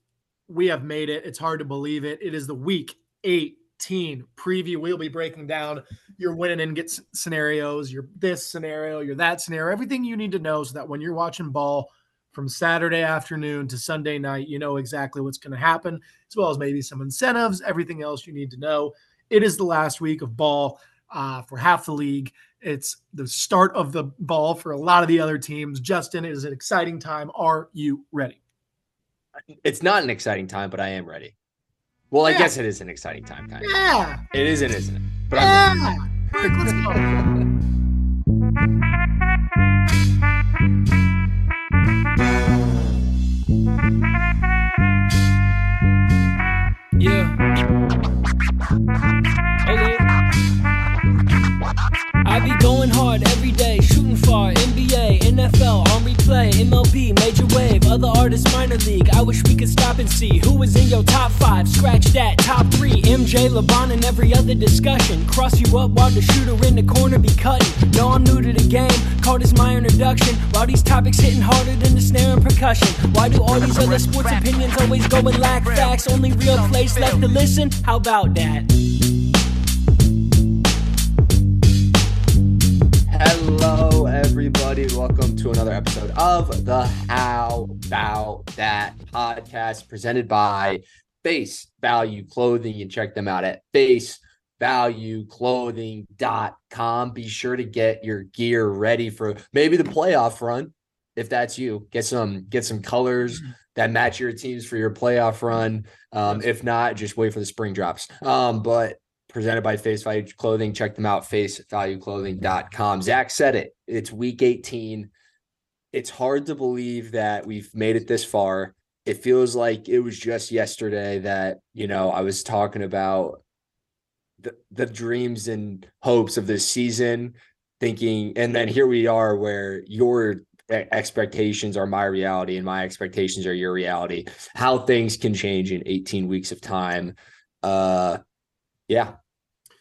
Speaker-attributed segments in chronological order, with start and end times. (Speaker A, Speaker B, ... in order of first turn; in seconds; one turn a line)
Speaker A: 0.5-28.4
Speaker B: 29.6-31.3
Speaker B: 32.1-33.7
Speaker A: 32.2-32.5
Speaker A: 33.6-34.2
Speaker B: 34.3-35.8
Speaker A: 35.3-37.1
Speaker B: 36.3-37.4
Speaker C: 47.0-47.4
Speaker C: 49.6-50.1
Speaker C: 52.2-78.7
Speaker B: 83.1-115.1
Speaker B: 115.9-123.4
Speaker B: 124.4-138.2
Speaker B: 138.9-139.2